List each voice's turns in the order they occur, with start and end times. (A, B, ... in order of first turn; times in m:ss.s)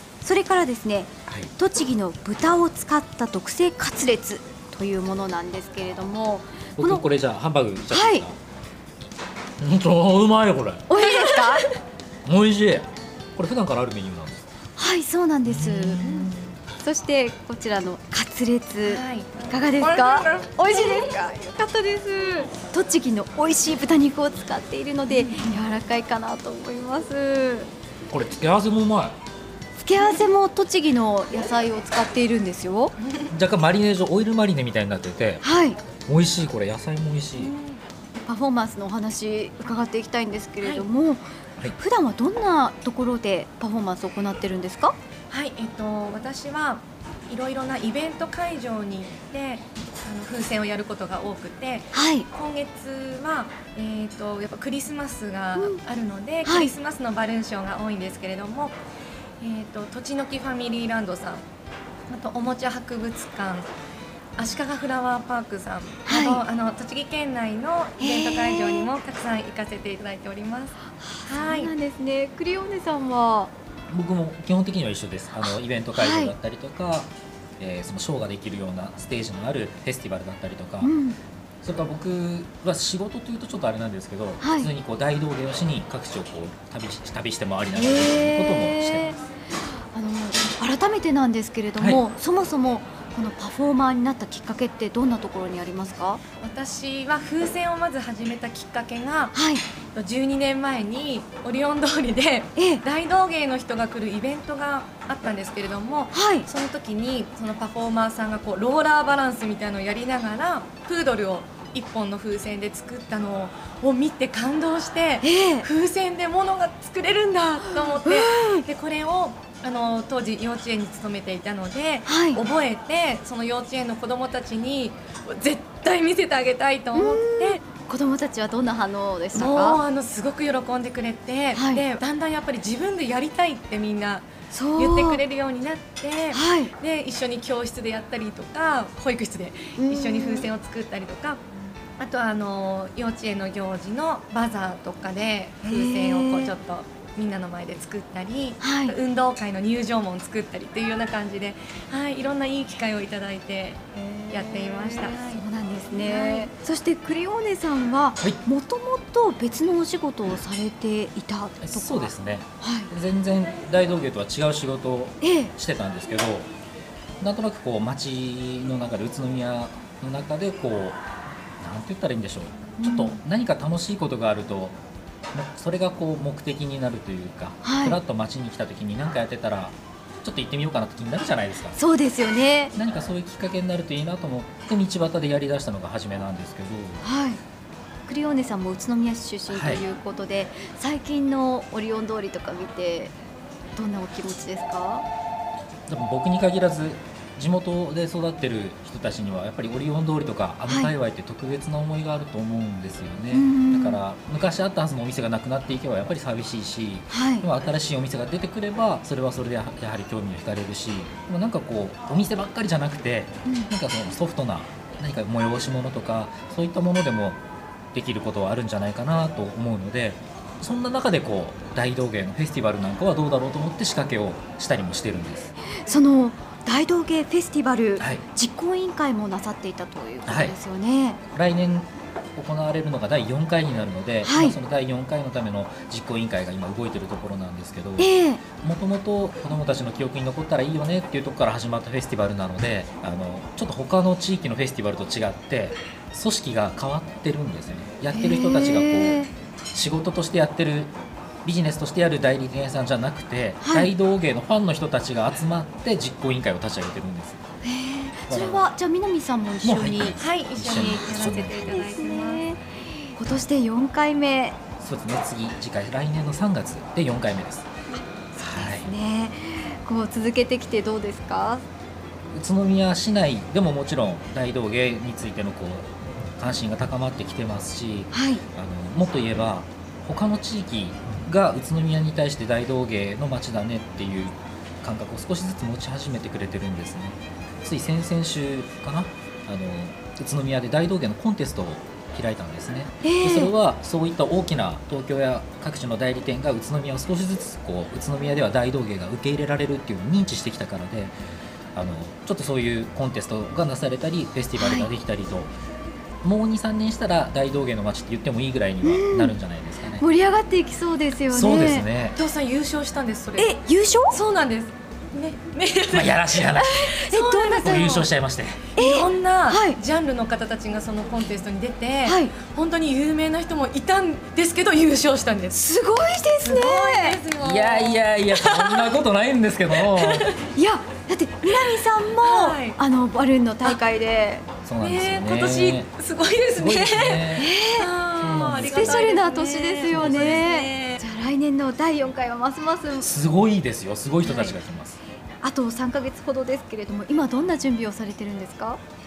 0:00.2-0:07.0 A
0:01.3-0:01.5 B
0:06.8-0:08.4 B
0:07.9-0:08.2 A
0:09.6-0:10.9 B
0:10.9-0:11.6 A
0:11.0-0:11.7 C
0:12.2-0:14.4 B
0:14.8-0:16.0 A
0:15.4-0:16.3 B
0:16.0-0:16.5 C
0:16.8-0:27.7 A
0:18.8-0:21.1 C
0:25.1-0:25.6 C
0:28.1-0:29.2 B
0:29.8-0:32.9 A
0:30.0-0:30.2 C
0:33.3-0:35.4 B
0:35.4-0:35.8 A
0:36.0-0:37.5 B
0:37.4-0:37.8 C
0:38.2-0:41.2 A
0:40.6-0:40.8 C
0:41.8-0:45.0 A
0:45.3-0:58.8 C
0:51.9-0:52.3 A
0:55.6-0:55.8 A
0:56.4-0:56.7 A
0:59.4-1:01.4 C
1:02.1-1:03.7 C
1:04.4-1:11.7 C
1:06.0-1:06.4 A
1:08.0-1:08.9 A
1:11.0-1:13.5 A
1:13.9-1:20.9 B
1:15.4-1:16.3 A
1:20.8-1:21.2 A
1:21.6-1:29.1 B
1:24.4-1:24.7 A
1:27.7-1:29.2 A
1:29.9-1:36.2 A
1:36.4-1:39.3 C
1:39.3-1:39.6 A
1:39.9-2:07.6 C
1:42.6-1:42.8 A
1:46.1-1:46.5 A
1:55.2-1:55.7 A
1:57.6-1:58.6 A
2:02.0-2:02.4 A
2:06.9-2:09.8 A
2:09.3-2:21.4 C
2:11.5-2:11.8 A
2:14.5-2:15.2 A
2:16.3-2:16.7 A
2:19.8-2:20.5 A
2:22.0-2:36.5 C
2:25.6-2:26.5 A
2:28.6-2:29.0 A
2:34.0-2:42.9 A
2:41.6-2:46.5 B
2:45.2-2:45.5 A
2:47.2-2:51.0 B
2:51.6-2:54.8 B
2:52.8-2:53.2 A
2:55.3-3:01.8 B
2:57.6-2:58.0 A
3:01.7-3:02.7 A
3:02.7-3:07.0 B
3:07.0-3:07.4 A
3:08.0-3:13.1 A
3:09.5-3:09.8 B
3:13.7-3:15.0 A
3:15.9-3:37.4 B
3:20.6-3:20.9 A
3:23.3-3:24.0 A
3:27.1-3:27.5 A
3:37.9-3:45.5 B
3:45.8-3:51.2 A
3:48.0-3:48.2 B
3:50.3-3:50.5 B
3:51.3-3:58.1 B
3:54.2-3:54.6 A
3:58.0-3:58.4 A
3:58.6-4:10.9 B
4:08.1-4:09.3 A
4:11.4-4:17.4 B
4:13.6-4:13.9 A
4:17.6-4:20.2 A
4:18.2-4:18.7 B
4:19.6-4:21.8 B
4:20.2-4:22.4 C
4:21.3-4:24.6 A
4:24.8-4:27.7 B
4:27.9-4:31.6 A
4:28.4-4:28.9 B
4:32.3-5:01.1 B
4:38.1-4:38.4 A
4:53.0-4:53.5 A
5:01.7-5:05.5 B
5:04.6-5:04.9 A
5:06.2-5:10.0 B
5:08.8-5:09.3 A
5:10.0-5:11.9 A
5:11.3-5:12.2 B
5:12.2-5:13.6 C
5:13.4-5:14.2 A
5:14.1-5:18.1 C
5:15.9-5:16.9 B
5:16.6-5:17.9 A
5:17.6-5:18.7 B
5:18.7-5:25.6 C
5:18.8-5:19.8 A
5:22.0-5:22.3 A
5:25.5-5:27.2 A
5:26.4-5:28.9 C
5:27.4-5:30.3 B
5:29.7-5:30.3 C
5:30.5-5:34.4 A
5:32.1-5:32.8 C
5:34.6-5:35.9 B
5:34.8-5:41.0 C
5:36.5-5:37.5 B
5:37.4-5:37.9 A
5:38.2-5:39.2 B
5:38.5-5:43.1 A
5:39.9-5:40.4 B
5:43.0-5:45.0 B
5:44.2-5:44.6 A
5:45.4-5:48.8 A